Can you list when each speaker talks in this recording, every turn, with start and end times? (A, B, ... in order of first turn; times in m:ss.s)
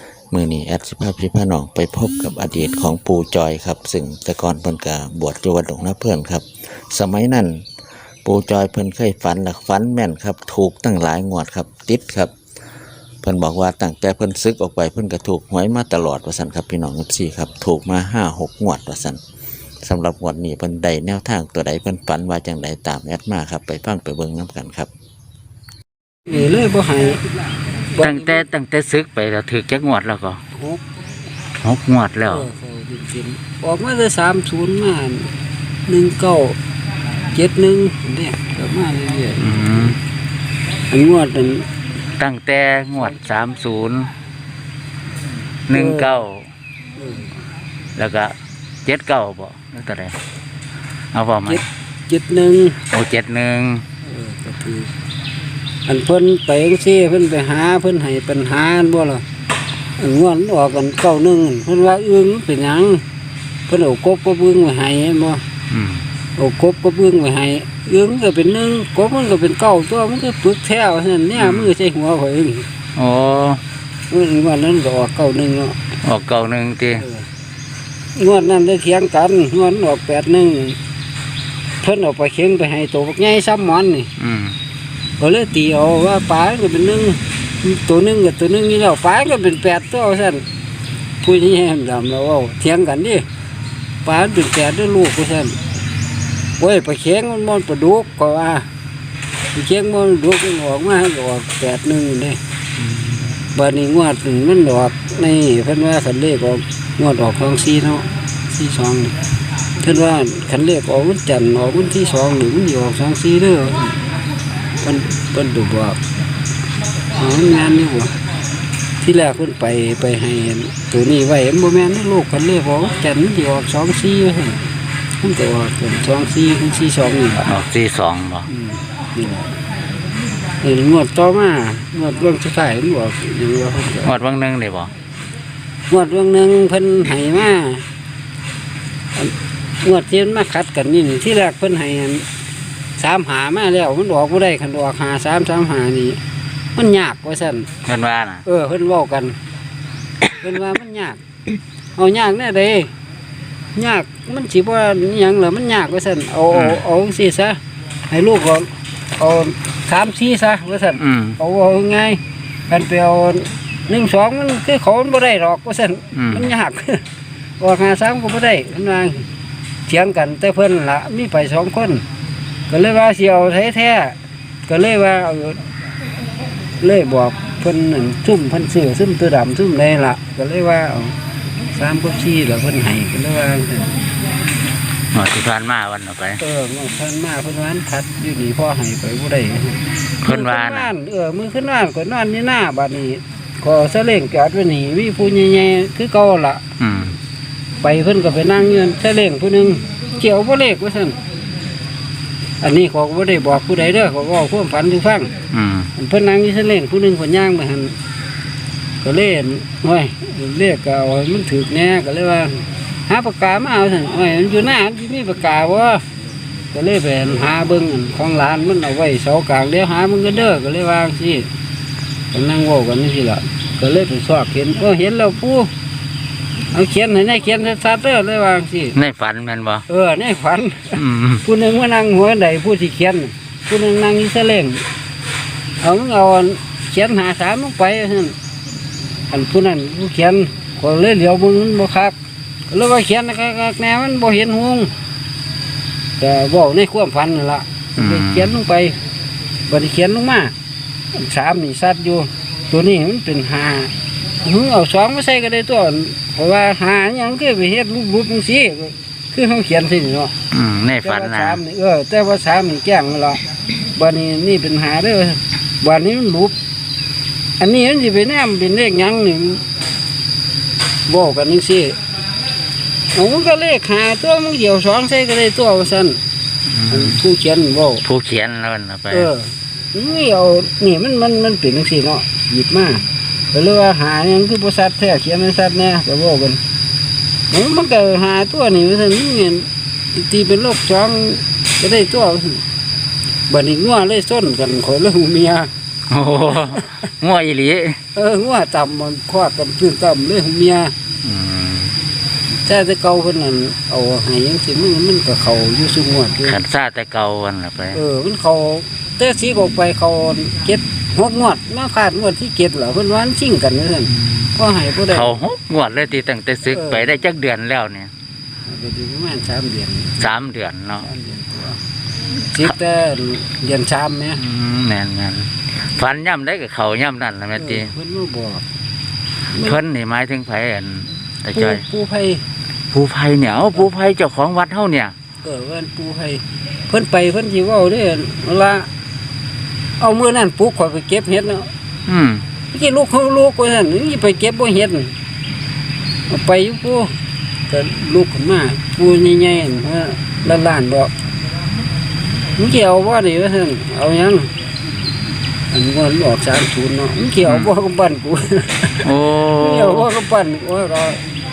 0:00.3-0:07.6 A
0:08.2-0:12.3 A
0:13.2-0:19.2 A
0:19.8-0:24.9 A
0:26.3-0:27.2 B
0:28.0-0:28.4 B
0:28.0-0:30.4 C
0:30.5-0:30.8 B
0:31.6-0:32.5 C
0:32.2-0:35.3 B
0:35.9-0:36.6 B
0:37.3-0:39.9 B
0:39.4-0:40.0 C
0:40.9-0:41.6 B
0:42.2-0:44.1 C
0:45.7-0:46.4 C
0:45.7-0:46.2 B
0:47.0-0:47.3 B
0:48.0-0:48.3 C
0:48.8-0:50.1 C
0:51.1-0:51.6 C
0:51.4-0:52.8 B
0:52.9-0:53.8 C
0:54.0-0:54.9 B
0:55.9-0:59.2 B
1:00.0-1:03.0 B
1:03.7-1:05.4 B
1:05.7-1:06.0 C
1:06.4-1:12.6 B
1:11.4-1:11.7 C
1:13.0-1:13.6 C
1:14.1-1:15.8 B
1:16.0-1:17.0 C
1:16.9-1:17.2 B
1:18.2-1:20.8 B
1:21.8-1:24.1 B
1:24.2-1:24.6 C
1:25.2-1:30.4 B
1:31.2-1:33.2 B
1:34.0-1:35.6 B
1:36.6-1:38.7 B
1:39.5-1:42.4 B
1:42.8-1:43.4 C
1:43.5-1:49.2 B
1:49.8-1:53.8 B
1:54.8-1:56.0 B
1:57.2-1:58.1 B
1:59.0-2:04.6 B
2:05.2-2:07.4 B
2:07.4-2:08.5 C
2:08.5-2:09.5 B
2:10.6-2:14.1 B
2:14.0-2:14.9 C
2:15.9-2:17.8 B
2:19.2-2:22.2 B
2:23.0-2:26.2 B
2:26.7-2:27.7 B
2:27.8-2:28.4 C
2:28.4-2:29.4 B
2:30.4-2:31.2 B
2:32.0-2:32.9 B
2:33.7-2:47.0 B
2:36.5-2:36.8 C
2:41.0-2:41.4 C
2:46.1-2:46.5 C
2:47.6-2:49.3 B
2:49.9-2:52.0 B
2:52.7-2:54.1 B
2:54.7-2:55.6 B
2:56.8-3:01.1 B
3:01.7-3:04.0 B
3:05.1-3:06.4 C
3:06.4-3:16.6 B
3:10.2-3:10.9 C
3:16.8-3:17.1 C
3:17.8-3:21.2 B
3:22.6-3:25.3 B
3:25.5-3:25.9 C
3:26.0-3:27.9 B
3:29.0-3:36.0 B
3:36.7-3:41.5 B
3:42.3-3:45.7 B
3:46.7-3:48.9 B
3:48.9-3:49.8 C
3:49.9-3:54.8 B
3:51.0-3:51.4 C
3:55.8-3:58.3 B
3:59.3-4:02.2 B
4:02.7-4:04.9 B
4:06.2-4:09.0 B
4:08.0-4:08.5 C
4:09.7-4:10.5 B
4:11.1-4:13.9 B
4:14.4-4:20.3 B
4:20.5-4:21.6 C
4:21.0-4:23.4 B
4:24.0-4:26.5 B
4:27.6-4:29.6 B
4:31.1-4:32.0 B
4:33.1-4:36.2 B
4:36.7-4:37.2 C
4:36.9-4:38.0 B
4:38.0-4:39.3 C
4:39.1-4:46.6 B
4:47.5-4:52.6 B
4:53.5-4:55.7 B
4:56.1-4:58.0 C
4:58.1-5:00.9 B
5:01.2-5:01.9 C
5:02.6-5:06.6 B
5:06.4-5:08.0 C
5:07.9-5:15.3 B
5:14.2-5:14.5 C
5:15.1-5:18.1 C
5:16.7-5:17.1 B
5:18.6-5:20.3 B
5:20.2-5:21.0 C
5:21.0-5:21.8 B
5:22.5-5:24.4 B
5:24.4-5:27.9 C
5:27.6-5:28.6 B
5:29.5-5:29.8 B
5:29.6-5:31.8 C
5:31.5-5:32.4 B
5:32.9-5:35.1 C
5:35.4-5:38.9 B
5:40.0-5:41.7 B
5:42.1-5:42.4 C
5:42.7-5:45.1 B
5:46.3-5:47.1 B
5:47.7-5:51.1 B
5:52.6-5:54.5 B
5:55.7-5:59.0 B
5:59.0-6:00.1 C
5:59.6-6:01.2 B